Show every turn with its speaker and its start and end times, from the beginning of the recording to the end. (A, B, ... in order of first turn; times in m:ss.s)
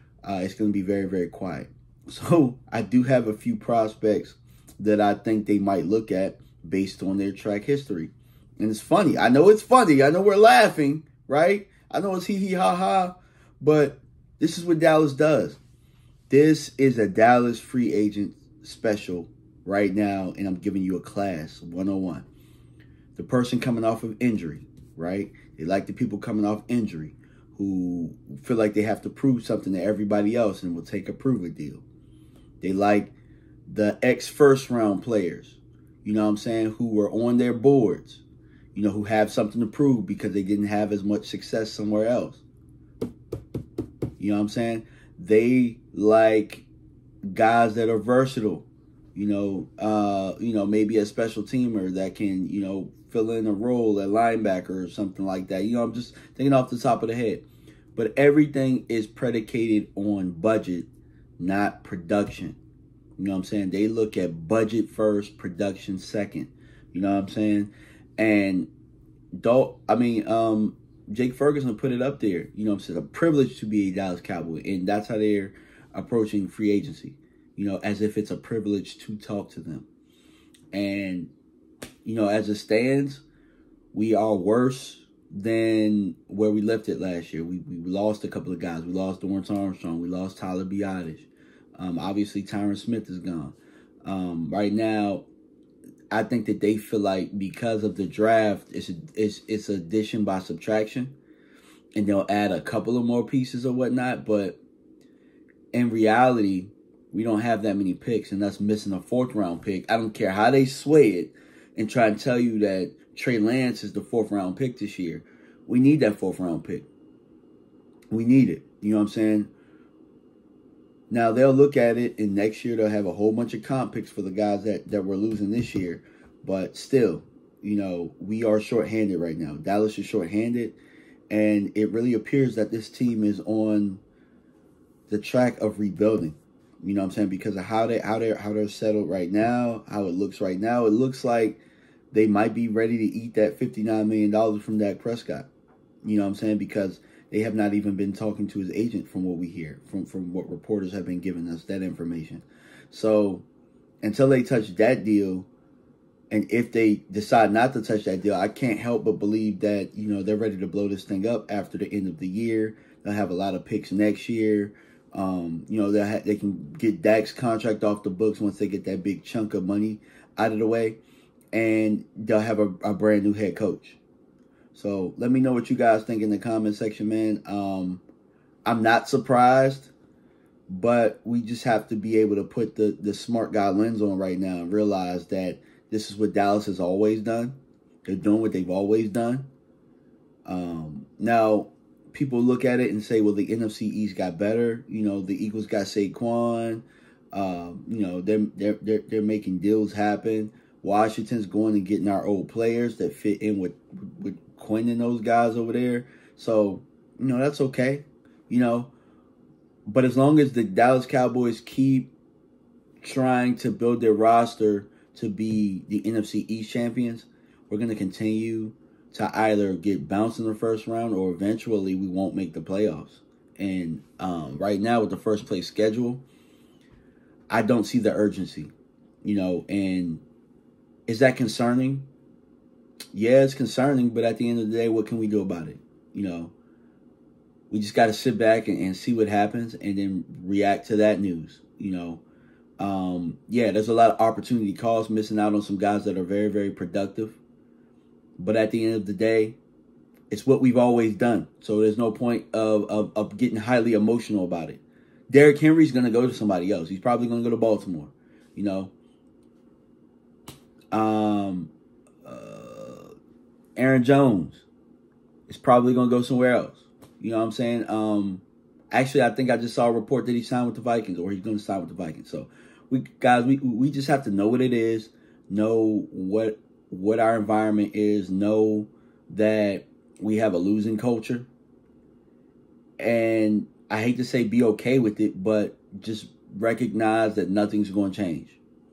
0:00.2-0:15.6 A
0:16.3-0:22.3 A
0:23.1-0:31.8 A
0:32.6-0:33.1 A
0:33.7-0:38.2 A
0:38.7-0:42.4 A
0:44.2-0:46.6 A
0:47.2-1:02.6 A
1:03.2-1:08.7 A
1:09.4-1:19.9 A
1:20.7-1:21.3 A
1:22.0-1:23.2 A
1:23.9-1:35.3 A
1:36.1-1:41.1 A
1:42.0-1:44.6 A
1:45.7-1:56.9 A
1:58.1-1:59.5 A
2:01.1-2:10.8 A
2:11.3-2:14.0 A
2:15.1-2:25.5 A
2:26.0-2:33.4 A
2:34.0-2:35.5 A
2:36.3-2:51.0 A
2:51.5-2:54.0 A
2:54.7-2:58.0 A
2:58.6-2:59.9 A
3:00.7-3:09.5 A
3:10.4-3:28.9 A
3:29.8-3:32.1 A
3:33.0-3:46.2 A
3:47.5-3:48.7 A
3:49.2-3:50.2 A
3:51.1-3:52.1 A
3:53.1-3:56.5 A
3:57.7-4:02.2 A
4:02.8-4:07.4 A
4:08.4-4:09.6 A
4:10.3-4:18.9 A
4:20.9-4:21.7 A
4:22.2-4:23.1 A
4:23.8-4:24.6 A
4:25.5-4:41.5 A
4:43.0-4:48.6 A